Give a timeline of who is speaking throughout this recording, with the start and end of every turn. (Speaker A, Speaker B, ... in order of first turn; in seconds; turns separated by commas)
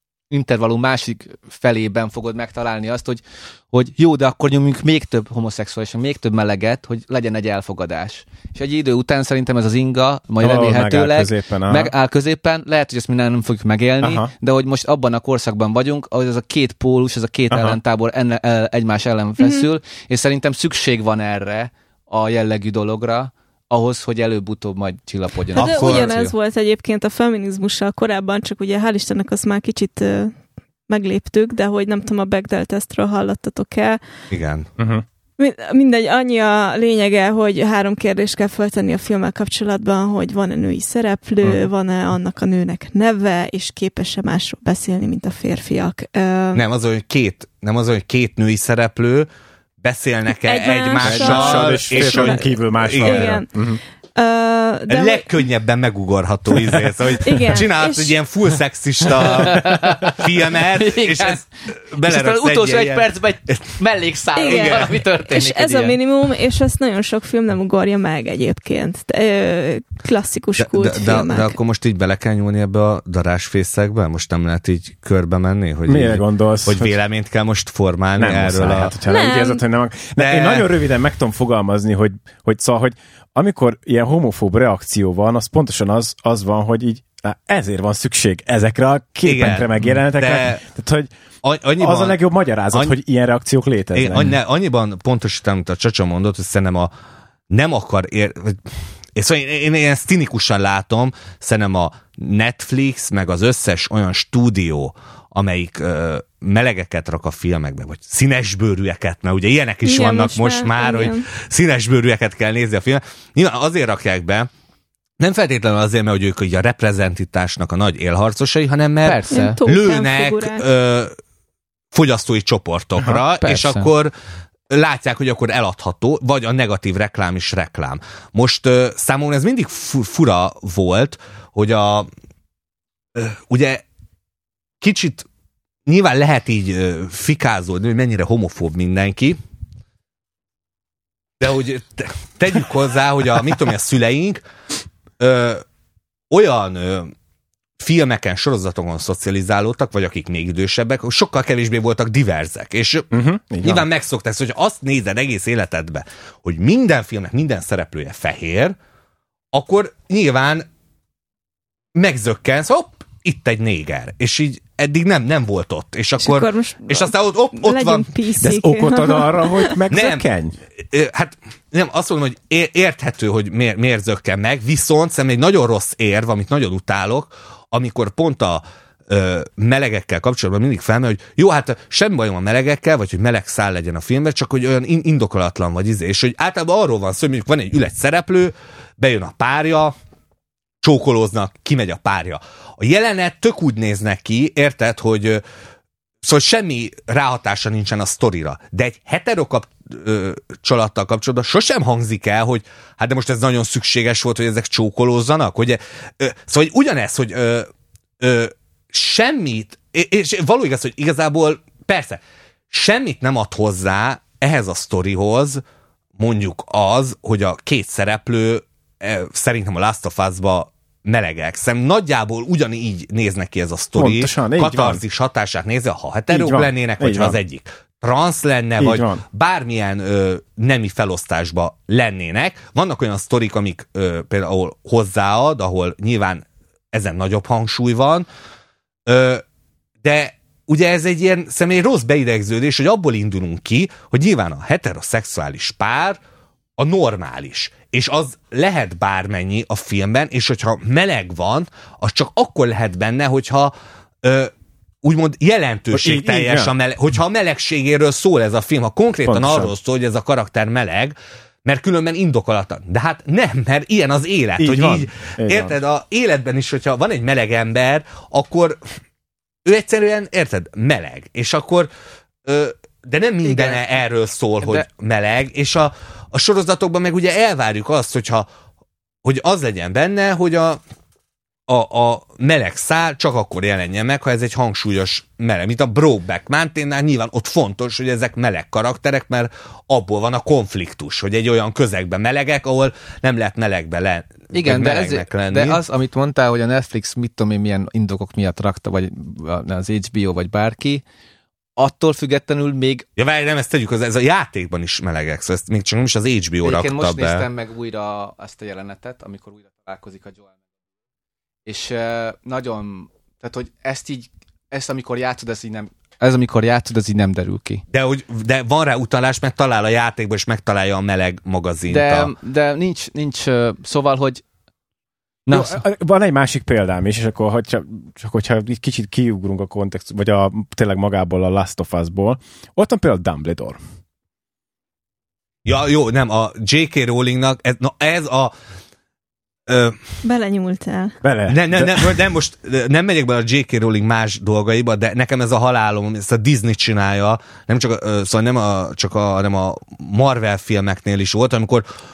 Speaker A: 0.3-26.3, Speaker B: 10.4-11.9, Speaker B: 14.0-14.3, Speaker B: 17.5-17.8, Speaker C: 19.4-19.7, Speaker C: 25.6-30.3, Speaker D: 25.6-26.1, Speaker C: 30.9-34.0, Speaker D: 34.3-34.7, Speaker B: 34.8-35.0, Speaker C: 35.4-46.6, Speaker D: 46.5-49.3, Speaker D: 49.8-53.4, Speaker C: 50.5-53.5, Speaker B: 51.0-53.8, Speaker C: 54.2-55.3, Speaker D: 54.9-63.7, Speaker C: 57.2-58.1, Speaker A: 59.3-61.4, Speaker A: 62.0-66.0, Speaker C: 64.4-71.6, Speaker D: 64.5-65.0, Speaker D: 70.6-78.9, Speaker B: 75.9-76.9, Speaker B: 78.2-91.1, Speaker C: 79.1-79.6, Speaker D: 80.2-80.7, Speaker D: 89.3-90.6, Speaker D: 91.4-92.2, Speaker B: 91.8-94.4, Speaker D: 93.9-96.9, Speaker D: 97.5-114.5, Speaker C: 109.8-111.2, Speaker D: 115.2-121.1, Speaker A: 119.0-119.6, Speaker C: 119.3-120.7, Speaker D: 121.9-124.1, Speaker A: 123.4-123.9, Speaker D: 124.7-132.1, Speaker D: 133.2-133.8, Speaker D: 134.8-135.3, Speaker D: 135.9-139.4, Speaker D: 141.4-144.4, Speaker D: 145.2-145.6, Speaker D: 146.3-147.1, Speaker D: 147.8-153.1, Speaker B: 153.1-153.9, Speaker D: 153.6-158.8, Speaker D: 159.5-160.7, Speaker D: 161.9-168.1, Speaker C: 166.2-169.7, Speaker B: 168.4-170.6, Speaker D: 169.9-170.2, Speaker D: 170.8-189.9, Speaker D: 190.8-195.4, Speaker D: 196.2-207.7, Speaker D: 208.2-215.6, Speaker D: 216.2-238.3, Speaker B: 224.0-225.0, Speaker B: 226.3-227.4, Speaker B: 228.8-229.2, Speaker D: 239.1-239.4, Speaker D: 240.0-246.2, Speaker D: 246.8-254.5, Speaker D: 255.0-268.8, Speaker B: 255.9-256.7, Speaker B: 259.3-259.7, Speaker B: 264.6-265.8, Speaker D: 269.6-271.9, Speaker D: 272.5-278.5, Speaker A: 273.4-273.9, Speaker A: 274.6-274.9, Speaker D: 279.2-280.8, Speaker D: 281.7-295.8, Speaker A: 294.5-301.0, Speaker A: 301.8-303.1, Speaker D: 303.2-307.5, Speaker A: 306.6-310.6, Speaker A: 311.7-317.8, Speaker D: 317.9-322.3, Speaker A: 321.9-324.4, Speaker A: 325.5-325.8, Speaker B: 325.5-333.8, Speaker D: 335.6-338.5, Speaker D: 339.7-340.0, Speaker C: 340.2-341.2, Speaker B: 341.2-342.1, Speaker D: 341.5-351.9